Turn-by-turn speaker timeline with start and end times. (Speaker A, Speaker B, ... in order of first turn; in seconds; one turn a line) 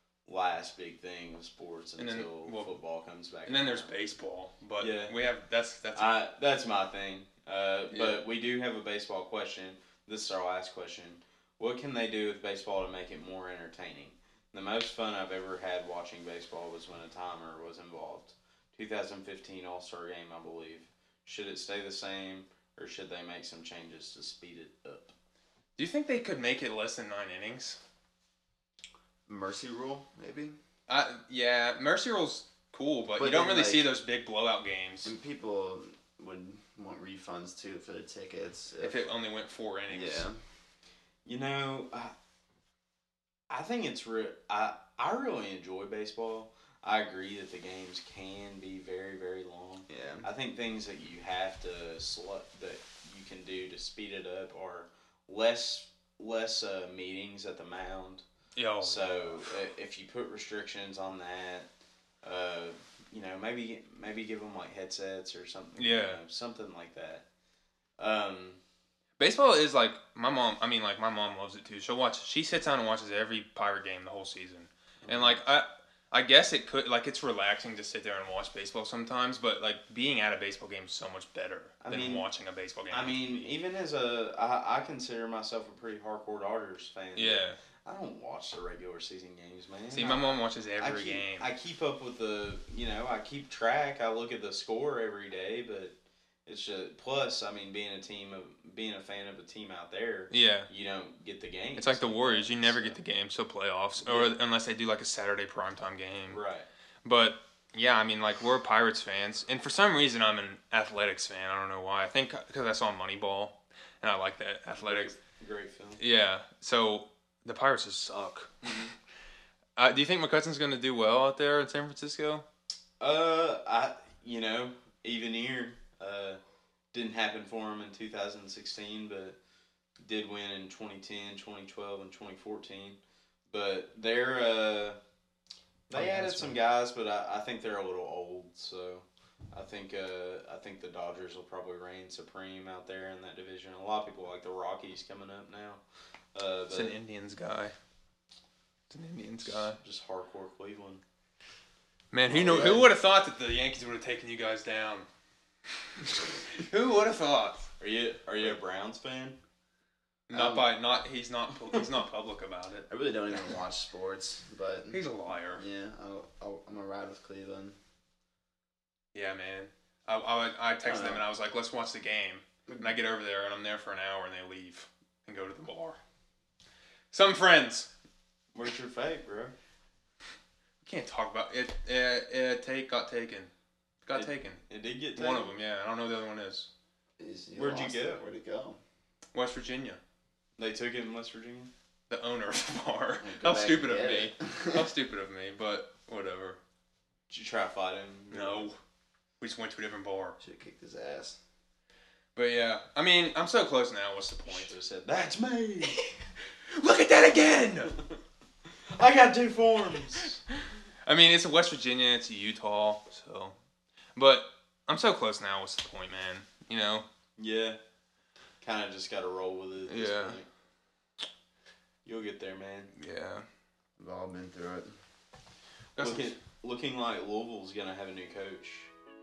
Speaker A: 0.2-3.9
Speaker B: 2.0-2.8
Speaker B: 3.4-6.1
Speaker A: 4.8-5.2
Speaker A: 5.9-25.1
Speaker B: 7.9-8.2
Speaker B: 25.8-27.8
Speaker C: 29.3-30.6
Speaker B: 30.9-35.1
Speaker C: 33.2-33.9
Speaker C: 35.0-39.1
Speaker B: 38.8-40.3
Speaker C: 39.9-40.4
Speaker A: 41.2-42.1
Speaker A: 43.5-58.2
Speaker C: 49.9-50.3
Speaker B: 58.5-59.6
Speaker A: 58.8-61.7
Speaker A: 62.2-67.2
Speaker B: 65.8-66.2
Speaker A: 68.0-68.6
Speaker B: 69.2-83.5
Speaker A: 75.0-75.4
Speaker A: 81.8-82.2
Speaker A: 82.9-95.9
Speaker B: 87.2-87.6
Speaker B: 89.9-91.5
Speaker A: 96.5-103.0
Speaker B: 100.3-100.7
Speaker B: 101.8-106.4
Speaker A: 104.0-104.3
Speaker A: 106.3-106.7
Speaker B: 107.0-115.1
Speaker A: 114.8-116.0
Speaker B: 116.0-118.8
Speaker A: 118.6-118.9
Speaker B: 119.8-122.4
Speaker A: 123.0-126.4
Speaker A: 126.9-129.4
Speaker A: 130.0-133.0
Speaker A: 133.5-135.0
Speaker A: 135.9-145.8
Speaker B: 135.9-136.6
Speaker A: 146.3-146.9
Speaker B: 146.7-147.7
Speaker B: 148.9-149.8
Speaker A: 149.4-151.0
Speaker B: 152.1-155.1
Speaker C: 152.3-152.9
Speaker A: 152.3-152.7
Speaker B: 156.5-157.7
Speaker A: 157.8-159.4
Speaker B: 160.3-162.9
Speaker C: 160.3-160.7
Speaker C: 162.9-167.8
Speaker B: 164.9-165.6
Speaker B: 169.1-176.0
Speaker C: 170.8-171.2
Speaker C: 172.7-173.0
Speaker B: 177.1-177.9
Speaker A: 178.5-179.5
Speaker B: 180.8-183.5
Speaker B: 184.0-186.7
Speaker A: 184.1-185.5
Speaker C: 187.2-188.8
Speaker A: 187.6-188.2
Speaker B: 189.3-190.0
Speaker A: 190.6-191.7
Speaker B: 192.1-196.6
Speaker C: 193.2-194.9
Speaker A: 197.3-198.7
Speaker B: 198.3-198.8
Speaker B: 199.4-200.3
Speaker C: 200.4-201.4
Speaker B: 202.3-204.7
Speaker A: 204.4-206.0
Speaker B: 205.8-206.1
Speaker B: 206.7-207.9
Speaker A: 208.9-210.4
Speaker B: 211.1-213.5
Speaker B: 214.2-217.0
Speaker A: 217.4-217.8
Speaker A: 218.6-220.5
Speaker B: 219.9-220.4
Speaker A: 222.0-222.9
Speaker B: 222.9-223.4
Speaker C: 224.0-224.9
Speaker B: 225.9-226.4
Speaker A: 226.0-228.9